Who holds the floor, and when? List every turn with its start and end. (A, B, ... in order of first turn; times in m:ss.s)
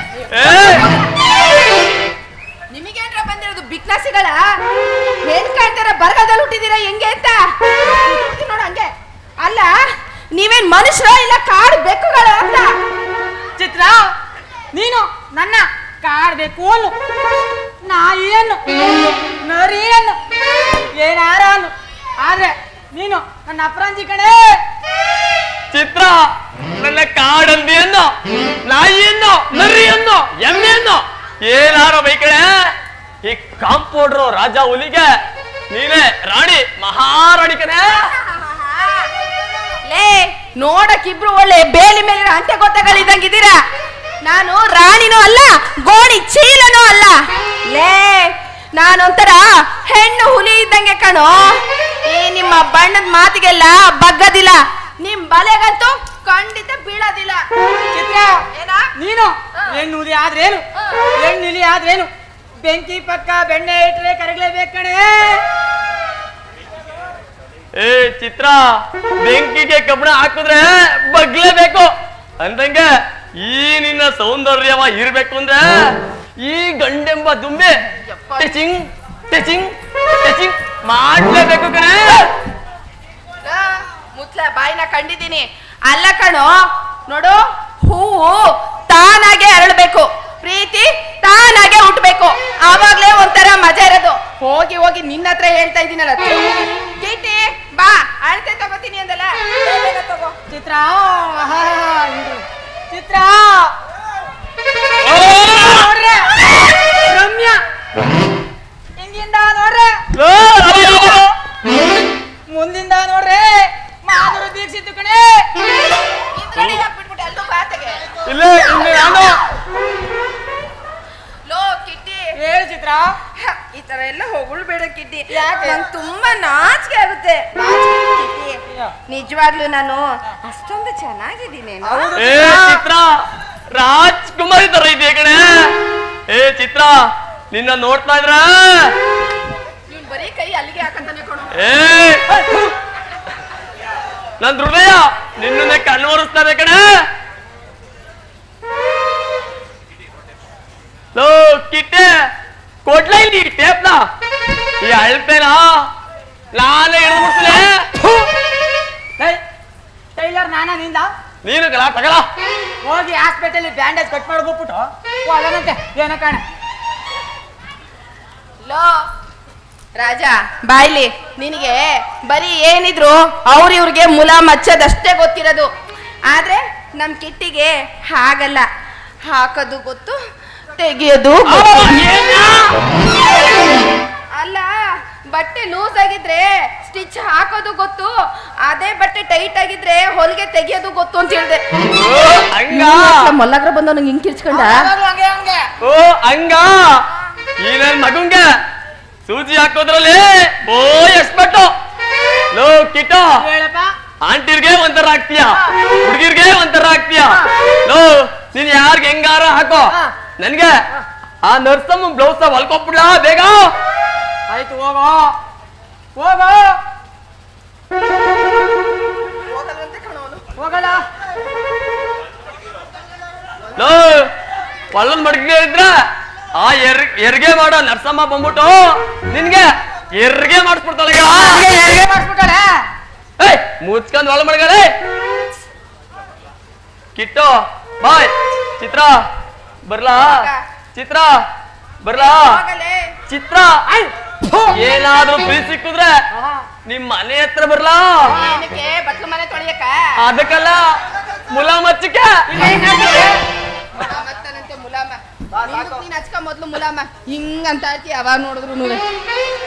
0:00.2-0:01.1 A
0:00.3-0:00.9 B
0:02.7-0:04.4 A
0:05.2-0:09.8 A
0:10.4-0:12.8 A
0:13.6-0:14.1 C
0:14.7-0:17.0 C
0:17.8-0:18.6 C
0:19.4-0:20.2 C
0:20.9-0:24.6 C
0:25.7-0:35.1 B
0:35.7-0:38.1 B
0:38.0-0:39.1 A
0:39.9-0:43.6 A
0:44.2-0:57.4 A
0:57.9-1:02.1 C
0:58.5-0:58.9 A
1:02.6-1:05.4 C
1:07.8-1:17.8 B
1:18.0-1:18.5 A
1:18.4-1:22.3 B
1:23.4-1:40.4 A
1:40.5-1:43.8 C
1:45.0-1:45.9 B
1:45.1-1:47.6 C
1:49.0-1:50.0 C
1:50.1-1:51.3 B
1:52.5-1:55.5 C
1:56.3-1:59.3 A
1:56.6-1:56.8 B
1:58.3-1:59.4 B
2:01.5-2:02.3 A
2:02.4-2:03.2 C
2:03.4-2:12.2 A
2:05.3-2:05.8 C
2:11.8-2:12.8 C
2:12.2-2:13.2 B
2:13.7-2:15.8 B
2:16.3-2:19.0 B
2:19.9-2:21.7 A
2:21.5-2:22.5 B
2:24.4-2:27.0 B
2:31.2-2:32.2 B
2:32.8-2:34.0 B
2:34.8-2:35.9 B
2:36.5-2:37.9 B
2:38.0-2:38.3 C
2:40.2-2:41.1 C
2:41.4-2:42.3 B
2:42.8-2:46.4 C
2:48.6-2:49.0 A
2:50.0-2:55.7 A
2:56.3-2:58.7 A
2:59.3-3:00.2 A
3:00.8-3:02.1 A
3:01.5-3:02.7 B
3:04.4-3:11.6 A
3:12.0-3:13.3 B
3:12.7-3:14.9 A
3:14.5-3:15.7 C
3:15.8-3:16.8 B
3:17.6-3:18.5 B
3:19.3-3:21.7 B
3:22.5-3:23.3 B
3:23.4-3:23.9 C
3:24.2-3:30.7 B
3:31.4-3:33.7 B
3:34.5-3:35.4 C
3:36.2-3:36.8 C
3:39.4-3:40.5 A
3:40.6-3:41.1 C
3:43.8-3:44.3 B
3:44.9-3:46.0 B
3:46.6-3:51.6 B
3:51.2-3:52.9 C
3:53.4-3:54.9 B
3:57.2-3:59.2 B
3:59.9-4:01.4 B
4:00.2-4:00.6 A
4:02.0-4:02.6 B
4:02.2-4:03.2 A
4:03.3-4:03.8 B
4:03.9-4:04.8 C
4:04.7-4:06.2 B
4:06.3-4:06.7 C
4:06.8-4:08.3 B
4:08.3-4:08.6 C
4:08.3-4:10.2 A
4:10.2-4:11.0 B
4:11.5-4:12.4 B
4:12.5-4:13.4 C
4:14.0-4:19.0 A